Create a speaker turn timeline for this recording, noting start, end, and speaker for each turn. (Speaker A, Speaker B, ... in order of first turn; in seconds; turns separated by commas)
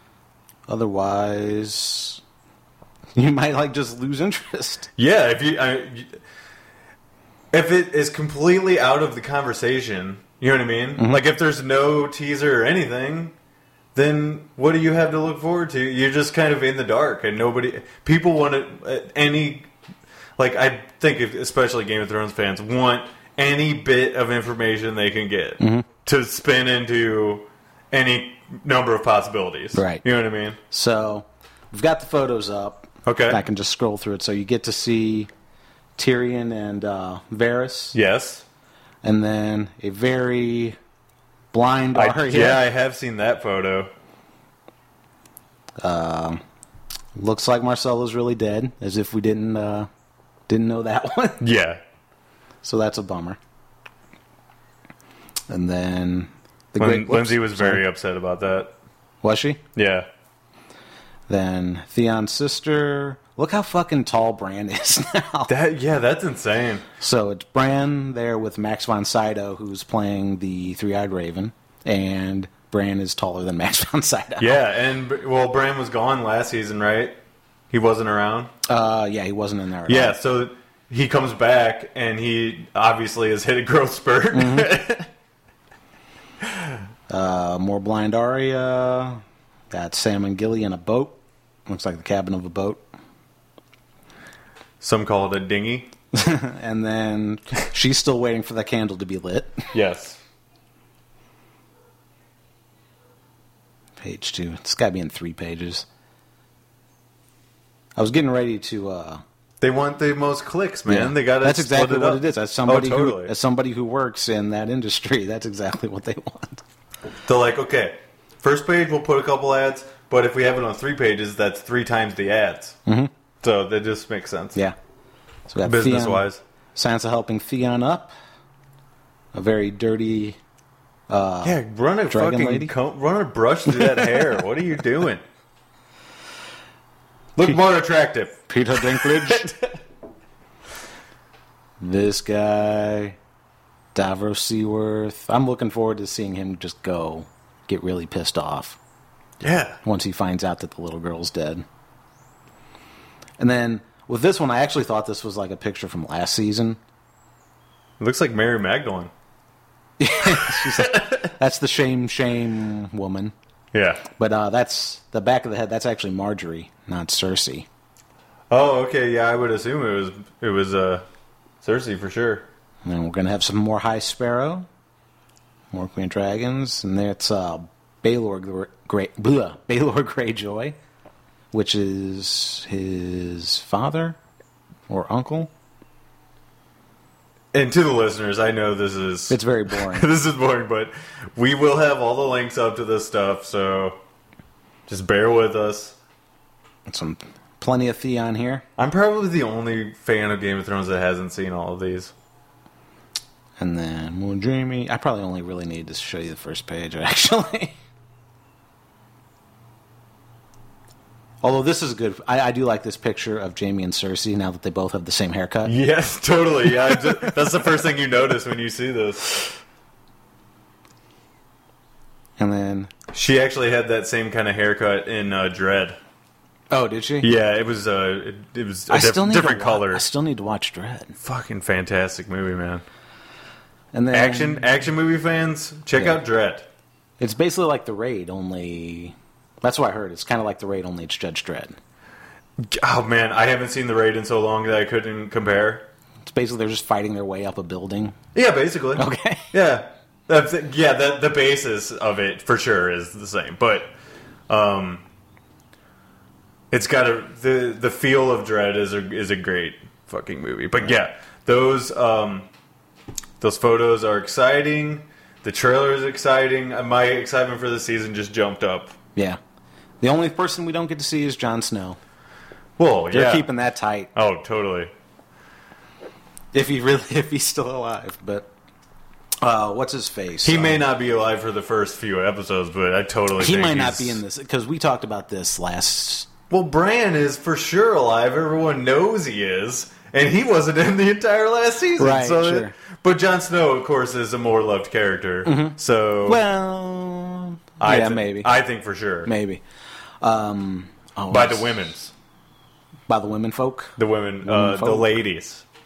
Speaker A: 0.7-2.2, Speaker A: 3.1-4.9, Speaker B: 5.0-6.2, Speaker B: 7.5-13.3, Speaker A: 11.0-11.2, Speaker B: 13.9-19.7, Speaker B: 20.4-30.6, Speaker A: 25.6-25.9, Speaker A: 29.7-30.0, Speaker A: 30.7-35.3, Speaker B: 33.0-33.4, Speaker A: 36.0-38.0, Speaker B: 37.9-38.4, Speaker A: 39.0-40.8, Speaker A: 41.5-42.6, Speaker B: 41.9-43.9, Speaker A: 45.8-46.4, Speaker A: 47.1-49.9, Speaker A: 50.5-51.4, Speaker B: 51.4-51.8, Speaker A: 52.6-53.4, Speaker A: 55.5-57.8, Speaker B: 56.8-58.7, Speaker A: 59.2-59.6, Speaker B: 59.7-60.1, Speaker A: 61.3-65.5, Speaker B: 65.5-66.9, Speaker A: 67.0-74.5, Speaker B: 74.4-77.2, Speaker B: 77.7-78.5, Speaker A: 78.7-80.2, Speaker B: 79.9-85.1, Speaker A: 84.3-84.7, Speaker B: 86.4-86.7, Speaker A: 87.1-92.8, Speaker B: 94.8-95.9, Speaker A: 96.1-99.7, Speaker B: 99.7-100.2, Speaker A: 104.0-105.8, Speaker A: 108.0-109.2, Speaker B: 109.6-113.3, Speaker A: 110.9-116.6, Speaker B: 117.2-122.8, Speaker A: 122.8-123.1, Speaker B: 123.4-124.6, Speaker A: 125.5-128.1, Speaker B: 125.6-126.4, Speaker A: 129.3-130.4, Speaker A: 131.1-132.7, Speaker B: 131.4-135.2, Speaker B: 137.4-139.6, Speaker A: 138.5-139.5, Speaker A: 141.8-143.2, Speaker A: 143.9-148.8, Speaker B: 149.4-149.8, Speaker A: 149.8-151.6, Speaker A: 153.4-156.8, Speaker B: 158.0-159.1, Speaker A: 160.0-163.3, Speaker B: 160.3-161.3, Speaker B: 163.7-164.0, Speaker A: 164.2-167.7, Speaker B: 168.5-171.1, Speaker B: 171.6-172.5, Speaker A: 172.8-174.7, Speaker A: 175.7-180.8, Speaker A: 181.5-184.2, Speaker A: 184.9-185.5, Speaker B: 187.5-194.0, Speaker A: 189.3-190.1, Speaker B: 194.9-195.9, Speaker A: 196.9-198.6, Speaker B: 198.8-202.1, Speaker A: 203.6-207.7, Speaker A: 211.4-215.8, Speaker B: 215.6-219.6, Speaker A: 216.7-217.3, Speaker A: 222.4-222.9, Speaker B: 223.1-226.0, Speaker A: 226.7-227.3, Speaker B: 227.2-230.0, Speaker A: 228.9-231.2, Speaker B: 231.2-232.8, Speaker A: 233.9-234.6, Speaker B: 234.1-236.7, Speaker A: 237.2-241.8, Speaker B: 242.6-245.9, Speaker A: 246.2-248.2, Speaker B: 248.3-253.9, Speaker A: 249.0-249.5, Speaker B: 254.5-255.0, Speaker B: 256.7-262.5, Speaker B: 263.4-268.9, Speaker A: 270.0-272.0, Speaker B: 272.8-273.5, Speaker A: 273.1-274.1, Speaker B: 274.1-274.9, Speaker A: 276.5-278.5, Speaker A: 279.4-280.8, Speaker B: 280.4-284.2, Speaker A: 283.4-286.3, Speaker B: 286.5-296.4, Speaker A: 292.0-292.7, Speaker A: 295.4-298.5, Speaker B: 297.8-299.3, Speaker A: 299.2-299.6, Speaker A: 300.2-301.7, Speaker B: 301.3-302.1, Speaker A: 303.1-305.1, Speaker B: 304.0-305.6